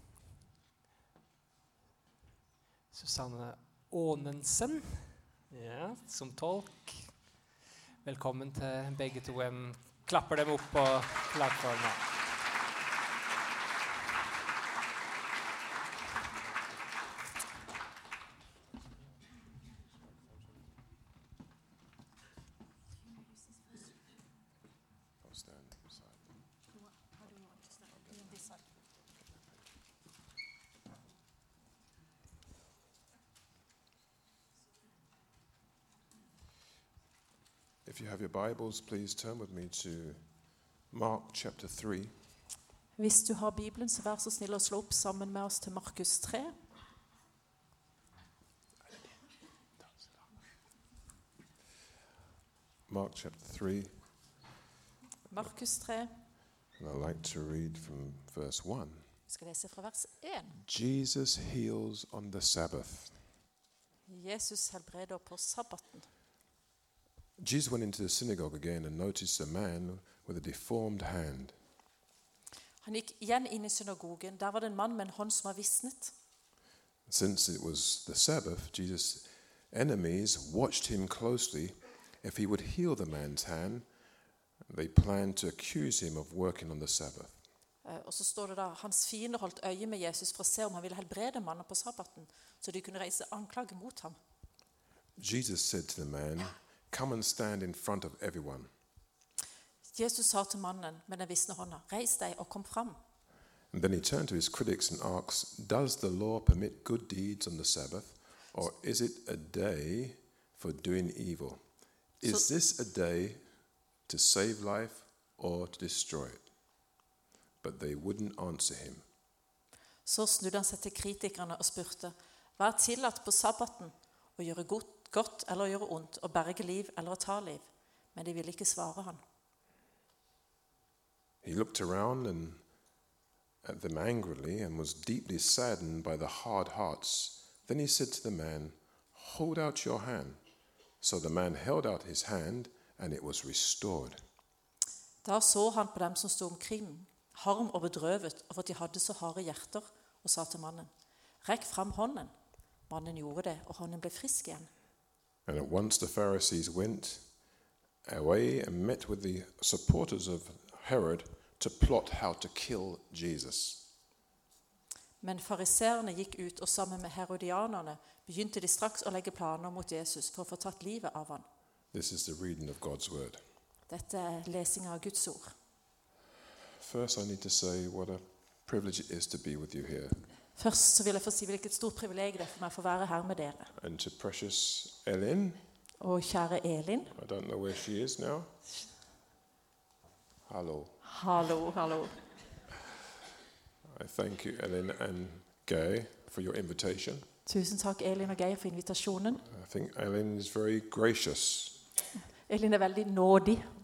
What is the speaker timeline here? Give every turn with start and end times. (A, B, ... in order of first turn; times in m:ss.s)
0:02.9-0:07.4 A
0:08.0-0:12.1 A
0:25.2-0:26.2 B
0:27.7-0:28.4 B
0:37.8-0:40.2 B
0:40.9-0:42.1 B
0:43.0-0:46.5 C
0:52.9-0:53.9 B
0:55.3-0:56.1 C
0:56.8-0:59.0 B
0:59.3-1:00.6 C
1:00.6-1:03.2 B
1:04.1-1:06.1 C
1:07.4-1:11.6 B
1:12.8-1:16.1 C
1:17.0-1:23.8 B
1:24.7-1:27.4 B
1:27.8-1:34.2 C
1:35.2-1:38.7 B
1:39.9-1:43.0 C
1:43.7-1:51.6 B
1:52.2-1:53.4 B
1:54.1-1:56.4 B
1:57.6-1:59.0 B
2:00.0-2:09.2 C
2:11.4-2:12.6 B
2:13.6-2:20.4 B
2:21.0-2:24.2 B
2:25.2-2:30.9 C
2:31.4-2:32.3 C
2:32.9-2:34.7 C
2:35.4-2:37.2 B
2:38.0-2:43.8 B
2:45.2-2:51.4 C
2:51.9-2:53.4 B
2:53.9-2:55.5 C
2:56.8-3:00.2 B
3:00.6-3:03.7 C
3:03.8-3:05.6 B
3:06.0-3:07.1 C
3:07.1-3:08.5 B
3:10.5-3:11.0 B
3:11.0-3:12.1 C
3:13.9-3:17.2 B
3:17.4-3:19.4 C
3:19.4-3:21.8 B
3:22.5-3:23.7 C